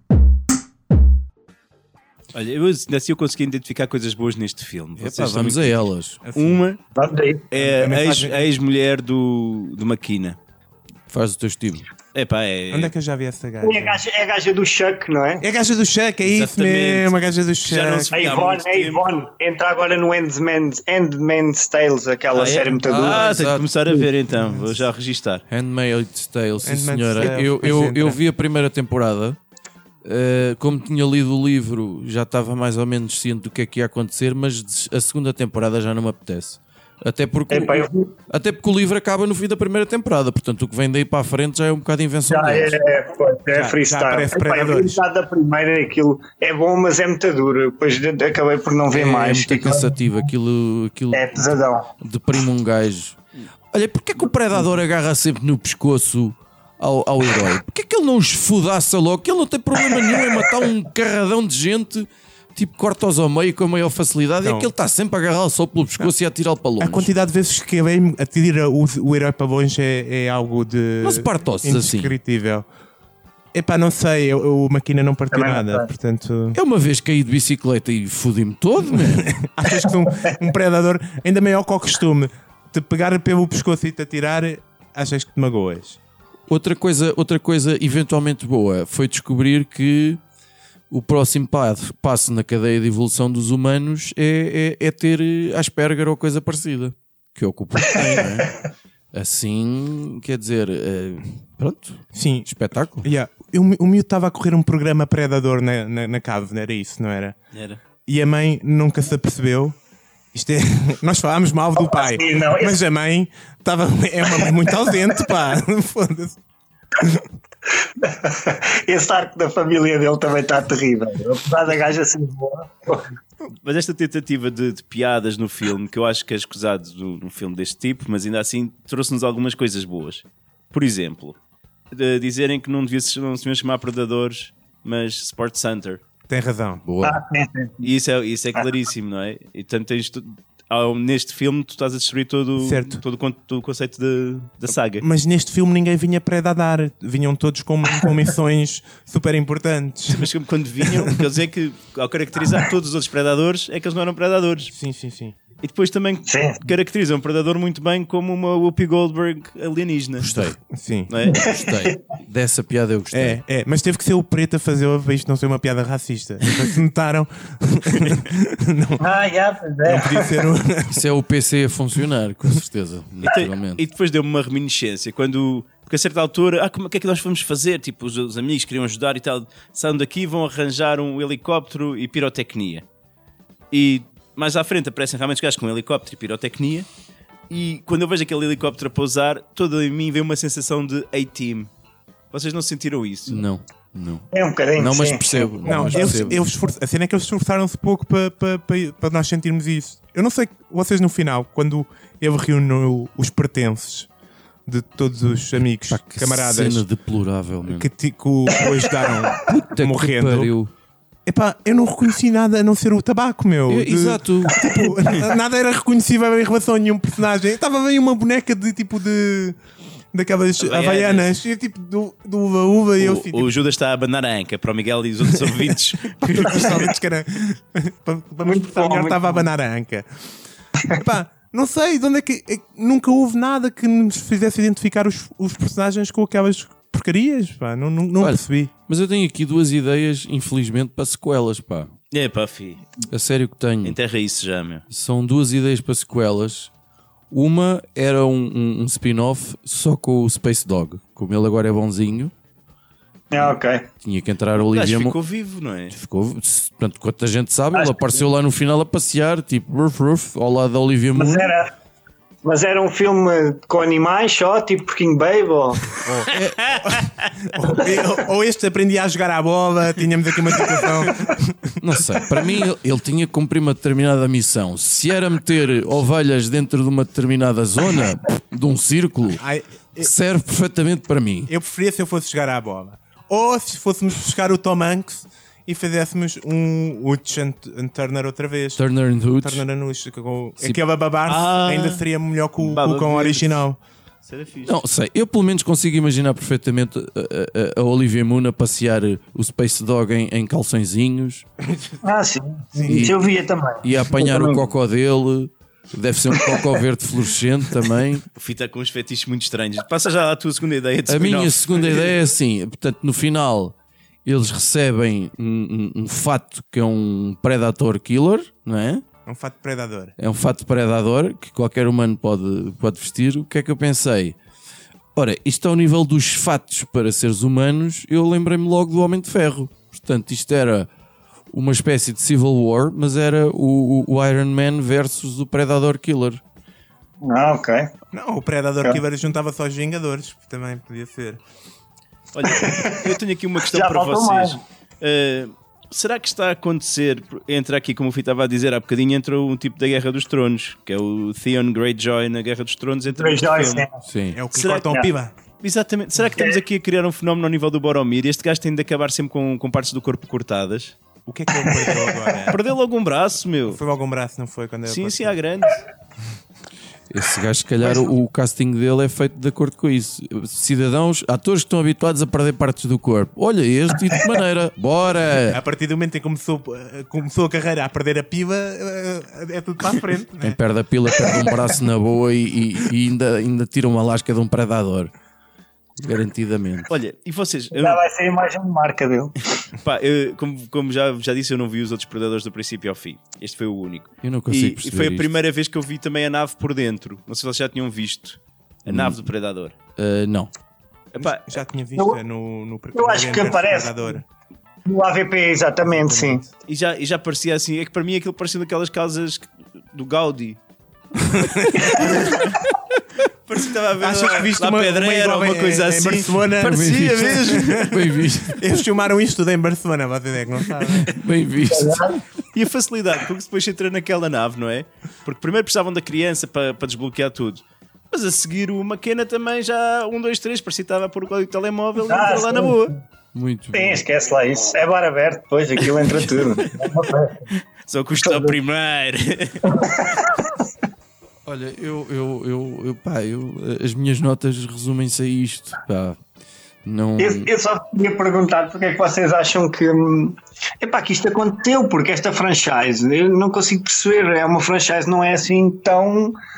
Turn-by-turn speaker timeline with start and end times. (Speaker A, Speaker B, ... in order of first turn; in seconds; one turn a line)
Speaker A: 2.3-6.8
Speaker B: 5.0-6.2
Speaker C: 6.2-6.6
Speaker D: 7.0-7.5
Speaker A: 7.5-10.4
Speaker C: 7.5-8.5
Speaker B: 11.1-11.9
Speaker A: 12.1-12.9
Speaker C: 12.7-14.0
Speaker D: 13.6-15.4
Speaker C: 15.4-18.2
Speaker A: 16.2-19.0
Speaker D: 18.1-23.3
Speaker A: 22.3-25.4
Speaker B: 22.9-24.1
Speaker B: 25.5-29.4
Speaker C: 26.6-28.2
Speaker B: 30.0-42.8
Speaker D: 37.5-38.1
Speaker D: 42.3-50.3
Speaker C: 43.5-45.0
Speaker B: 48.9-53.2
Speaker D: 51.1-51.9
Speaker B: 53.7-67.1
Speaker D: 59.9-60.5
Speaker C: 64.4-64.7
Speaker C: 66.8-72.7
Speaker B: 71.0-72.2
Speaker C: 73.5-76.6
Speaker D: 75.3-75.9
Speaker B: 76.5-79.3
Speaker C: 78.9-86.0
Speaker B: 86.5-90.2
Speaker B: 90.9-98.5
Speaker B: 99.1-103.1
Speaker C: 102.1-102.5
Speaker C: 103.0-107.4
Speaker A: 107.5-107.8
Speaker C: 108.1-109.8
Speaker C: 110.3-116.4
Speaker D: 111.8-112.8
Speaker D: 114.3-114.5
Speaker D: 118.0-123.1
Speaker A: 123.6-131.4
Speaker A: 131.9-136.0
Speaker C: 136.3-136.8
Speaker B: 136.8-137.2
Speaker D: 137.0-137.8
Speaker A: 137.8-145.0
Speaker C: 142.6-143.0
Speaker C: 145.0-150.3
Speaker A: 150.1-154.7
Speaker C: 154.7-155.4
Speaker A: 155.6-160.5
Speaker D: 156.3-156.7
Speaker B: 160.2-160.6
Speaker C: 160.7-161.1
Speaker A: 161.1-161.4
Speaker B: 161.2-163.4
Speaker D: 161.3-162.0
Speaker C: 163.1-169.1
Speaker D: 169.0-170.4
Speaker C: 169.8-171.0
Speaker B: 170.9-173.8
Speaker A: 173.2-182.8
Speaker A: 183.7-186.9
Speaker A: 187.5-191.7
Speaker A: 192.3-193.3
Speaker B: 193.3-194.2
Speaker D: 194.3-196.3
Speaker B: 194.8-196.4
Speaker C: 195.7-204.1
Speaker C: 204.7-206.9
Speaker B: 205.9-207.9
Speaker C: 207.6-210.5
Speaker D: 208.5-209.1
Speaker B: 209.4-210.7
Speaker C: 211.3-219.6
Speaker B: 213.7-214.6
Speaker C: 220.1-223.5
Speaker A: 220.6-221.3
Speaker A: 223.0-226.8
Speaker C: 225.2-225.6
Speaker C: 226.2-230.1
Speaker D: 228.4-229.5
Speaker C: 231.0-238.7
Speaker B: 238.2-241.9
Speaker A: 242.1-242.9
Speaker B: 243.1-244.0
Speaker A: 243.8-244.8
Speaker B: 244.9-246.7
Speaker B: 247.3-252.3
Speaker D: 253.3-253.9
Speaker B: 253.4-255.2
Speaker A: 254.6-255.9
Speaker B: 255.9-261.5
Speaker D: 257.7-258.2
Speaker D: 261.1-261.7
Speaker D: 262.4-265.9
Speaker B: 266.1-266.6
Speaker C: 266.1-271.8
Speaker A: 266.7-267.1
Speaker B: 271.8-279.4
Speaker C: 279.4-280.1
Speaker B: 280.0-281.5
Speaker C: 281.5-288.8
Speaker B: 288.8-289.6
Speaker C: 289.4-293.8
Speaker A: 291.3-292.0
Speaker A: 292.6-293.6
Speaker A: 294.3-294.8
Speaker B: 294.7-301.4
Speaker C: 301.6-302.0
Speaker D: 302.0-304.7
Speaker C: 302.8-303.1
Speaker B: 302.9-303.3
Speaker B: 303.8-308.2
Speaker A: 308.4-312.1
Speaker B: 311.1-319.0
Speaker C: 319.3-320.2
Speaker B: 320.2-324.4
Speaker B: 325.2-330.9
Speaker B: 331.5-336.4
Speaker D: 337.2-337.9
Speaker C: 338.1-341.4
Speaker A: 342.3-353.9
Speaker D: 342.4-343.1
Speaker D: 343.7-344.6
Speaker D: 353.1-354.0
Speaker B: 354.1-354.4
Speaker C: 354.3-355.4
Speaker A: 354.5-354.9
Speaker D: 354.8-355.1
Speaker A: 355.6-361.0
Speaker C: 361.3-362.6
Speaker A: 362.5-363.8
Speaker C: 363.6-365.4
Speaker A: 364.9-365.8
Speaker B: 367.1-375.6
Speaker C: 375.5-380.6
Speaker B: 380.4-385.1
Speaker D: 381.2-381.6
Speaker B: 386.0-386.9
Speaker A: 386.9-388.0
Speaker D: 387.7-389.5
Speaker A: 389.8-399.8
Speaker B: 394.2-395.3
Speaker B: 398.9-399.2
Speaker B: 400.0-400.5
Speaker A: 401.1-401.4
Speaker C: 401.2-404.3
Speaker D: 402.9-404.2
Speaker D: 404.9-406.4
Speaker C: 405.9-406.4
Speaker A: 406.6-410.6
Speaker C: 411.3-412.4
Speaker D: 411.8-412.6
Speaker A: 413.5-418.0
Speaker C: 414.0-421.1
Speaker B: 416.6-418.7
Speaker B: 421.0-422.2
Speaker D: 421.7-422.2
Speaker A: 422.5-432.9
Speaker D: 432.1-433.0
Speaker B: 433.3-434.0
Speaker D: 433.7-437.5
Speaker A: 437.9-439.6
Speaker D: 438.2-438.6
Speaker D: 439.7-440.6
Speaker B: 441.5-446.2
Speaker B: 446.8-447.5
Speaker D: 447.2-456.4